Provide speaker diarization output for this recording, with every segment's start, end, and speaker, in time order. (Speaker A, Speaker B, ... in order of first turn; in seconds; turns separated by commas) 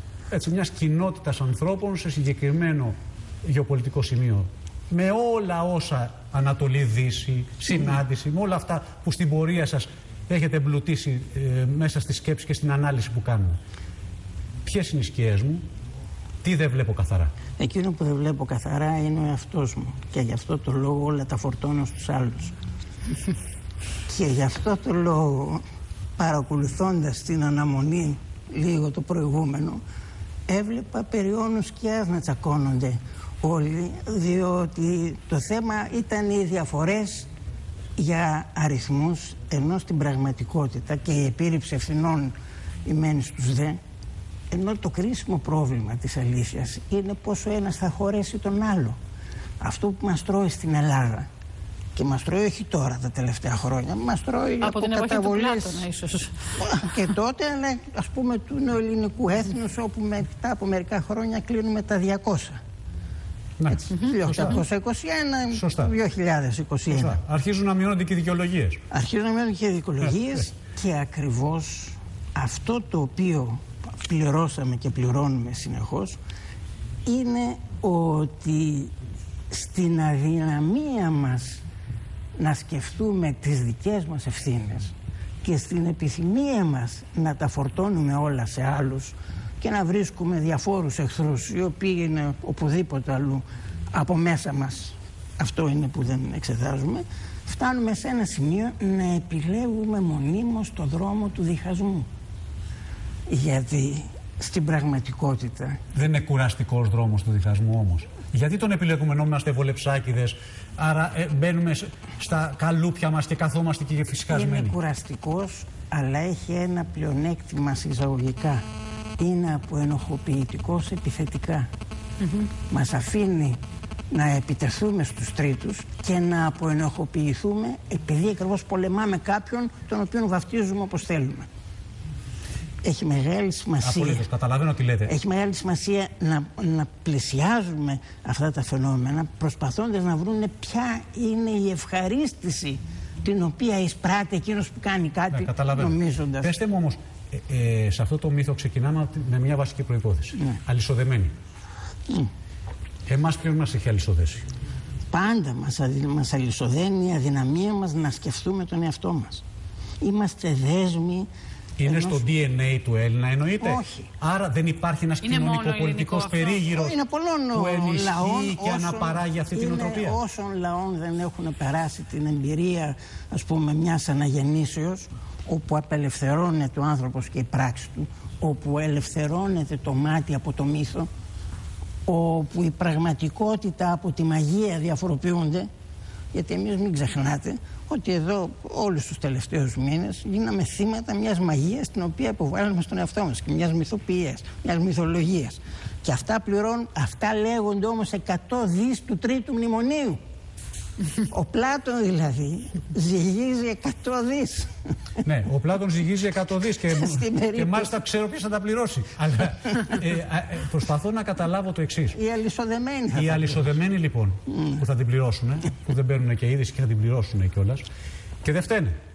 Speaker A: 0.3-13.6, Speaker A: 14.6-15.6, Speaker A: 16.4-17.3, Speaker B: 17.6-22.6, Speaker B: 24.1-25.6, Speaker B: 26.2-29.8, Speaker B: 30.5-37.3, Speaker B: 38.0-43.8, Speaker B: 44.5-49.0, Speaker B: 49.6-51.3, Speaker B: 52.0-55.9, Speaker C: 54.6-56.5, Speaker B: 56.5-62.6, Speaker A: 63.6-64.6, Speaker B: 63.7-67.2, Speaker A: 65.5-65.9, Speaker A: 66.9-68.8, Speaker B: 68.9-76.2, Speaker B: 77.0-78.9, Speaker B: 79.5-81.6, Speaker B: 82.4-102.1, Speaker B: 103.3-105.8, Speaker A: 105.9-114.8, Speaker B: 114.3-118.6, Speaker B: 119.2-121.7, Speaker C: 122.2-122.5, Speaker B: 122.7-123.6, Speaker B: 124.1-131.5, Speaker B: 132.8-134.2, Speaker A: 133.8-135.1, Speaker B: 135.1-146.6, Speaker A: 145.3-151.3, Speaker A: 153.1-154.5, Speaker B: 155.1-159.4, Speaker B: 160.0-161.3, Speaker A: 161.8-167.0, Speaker B: 161.8-162.2, Speaker B: 163.6-164.1, Speaker C: 165.2-166.6, Speaker B: 166.7-181.1, Speaker A: 167.5-170.2, Speaker B: 182.1-185.7, Speaker B: 186.3-200.2, Speaker B: 201.3-204.7, Speaker A: 205.2-212.2, Speaker B: 206.9-208.0, Speaker B: 212.1-213.7, Speaker A: 213.1-217.8, Speaker B: 214.5-214.8, Speaker A: 218.4-219.0